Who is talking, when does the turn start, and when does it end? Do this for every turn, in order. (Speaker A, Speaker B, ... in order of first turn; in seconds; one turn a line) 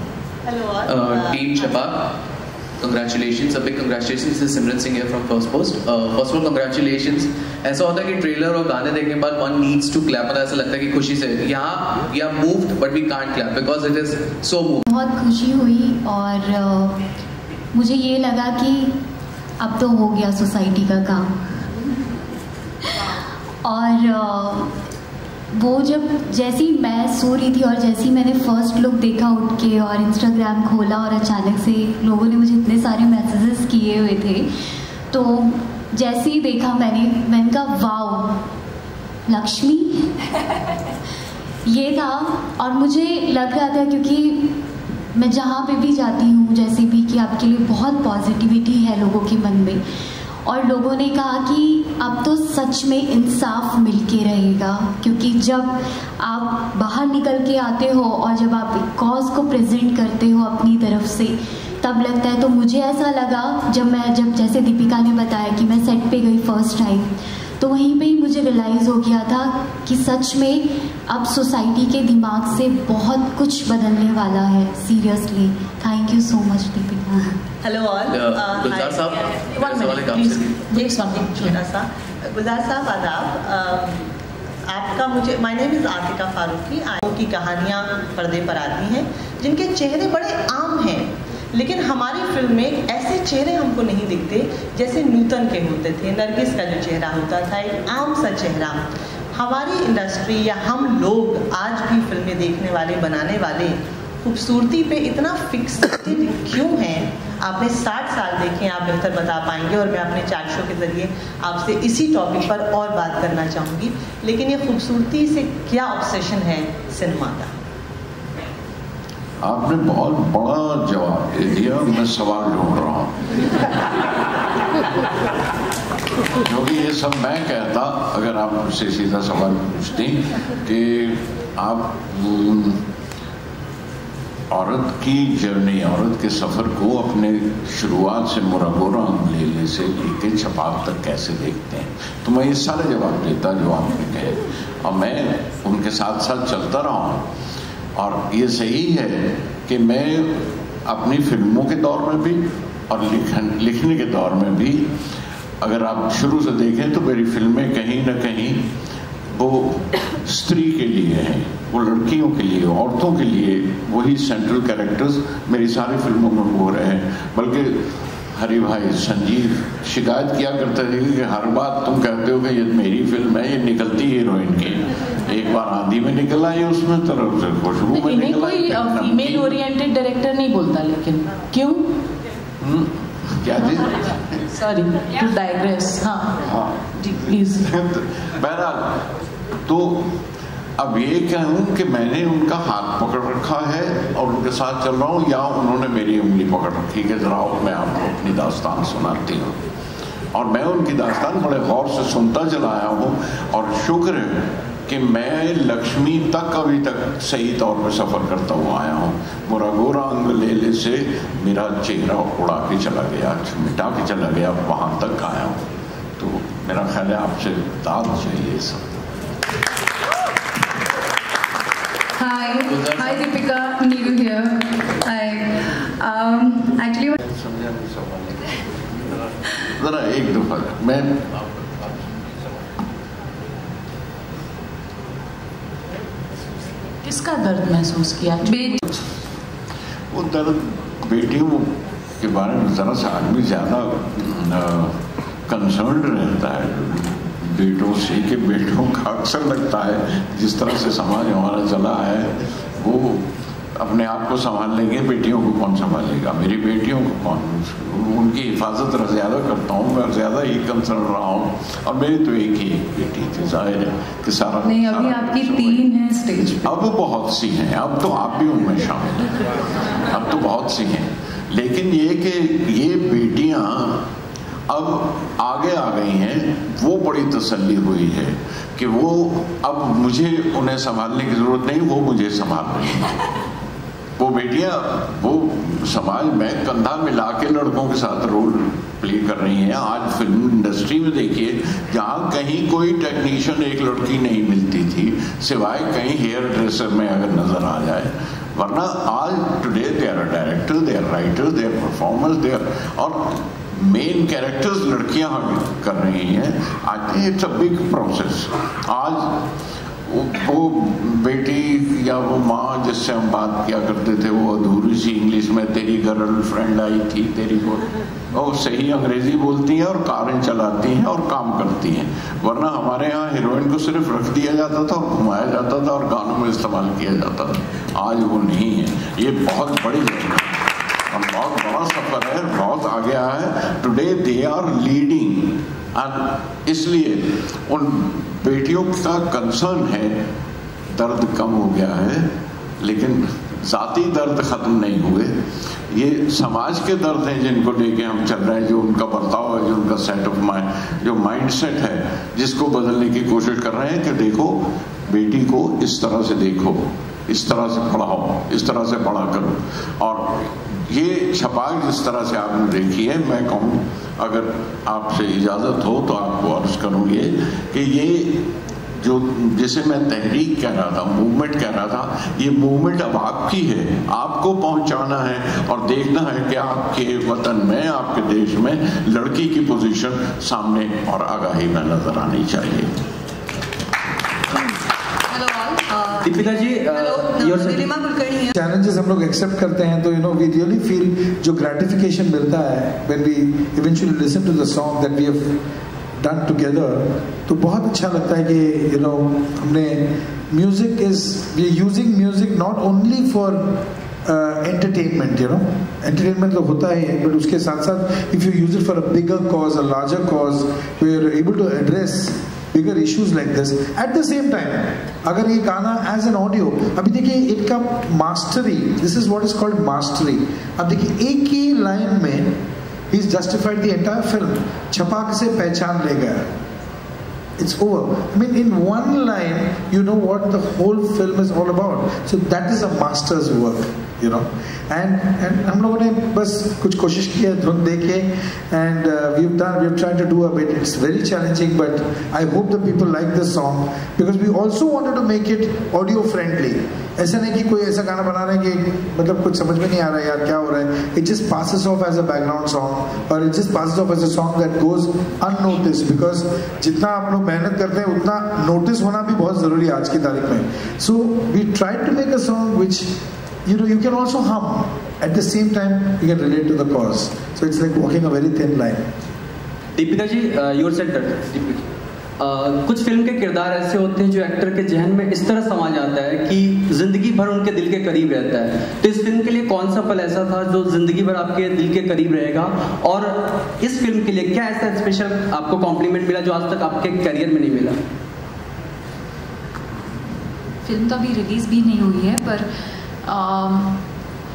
Speaker A: 0.4-1.8
Speaker B: 0.8-2.1
Speaker B: 2.8-14.8
Speaker C: 14.9-17.0
Speaker C: 17.7-18.9
Speaker C: 19.6-21.3
Speaker C: 23.6-24.7
Speaker C: 25.5-34.5
Speaker C: 35.1-38.4
Speaker C: 39.3-40.1
Speaker C: 41.6-44.6
Speaker C: 45.1-49.8
Speaker C: 50.5-77.4
Speaker A: 77.6-79.5
Speaker B: 78.1-80.7
Speaker D: 79.6-81.6
Speaker A: 80.7-84.0
Speaker A: 84.7-98.8
Speaker A: 99.3-117.5
Speaker E: 119.4-123.2
Speaker E: 126.4-132.8
Speaker E: 134.5-147.2
Speaker E: 147.9-154.9
Speaker E: 155.6-158.6
Speaker E: 159.3-179.6
Speaker D: 177.9-182.0
Speaker E: 182.6-184.2
Speaker D: 184.5-186.4
Speaker E: 186.4-189.1
Speaker D: 187.1-187.7
Speaker E: 189.7-190.1
Speaker E: 190.8-199.6
Speaker E: 200.3-215.6
Speaker E: 216.2-219.0
Speaker F: 222.2-227.1
Speaker B: 222.6-223.3
Speaker E: 227.2-232.2
Speaker D: 237.0-239.0
Speaker F: 238.4-238.8
Speaker E: 240.1-244.9
Speaker E: 245.5-265.8
Speaker F: 264.6-266.6
Speaker E: 266.4-269.4
Speaker E: 270.1-274.0
Speaker E: 274.7-283.2
Speaker E: 284.2-309.4
Speaker E: 310.1-340.2
Speaker E: 340.9-342.3
Speaker E: 342.8-345.4
Speaker E: 345.9-368.4
Speaker E: 369.0-382.9
Speaker F: 385.3-388.5
Speaker G: 386.2-387.9
Speaker H: 388.5-395.6
Speaker H: 396.2-426.4
Speaker H: 427.6-463.1
Speaker H: 463.6-469.1
Speaker G: 469.9-488.0
Speaker I: 490.8-492.7
Speaker I: 493.2-494.0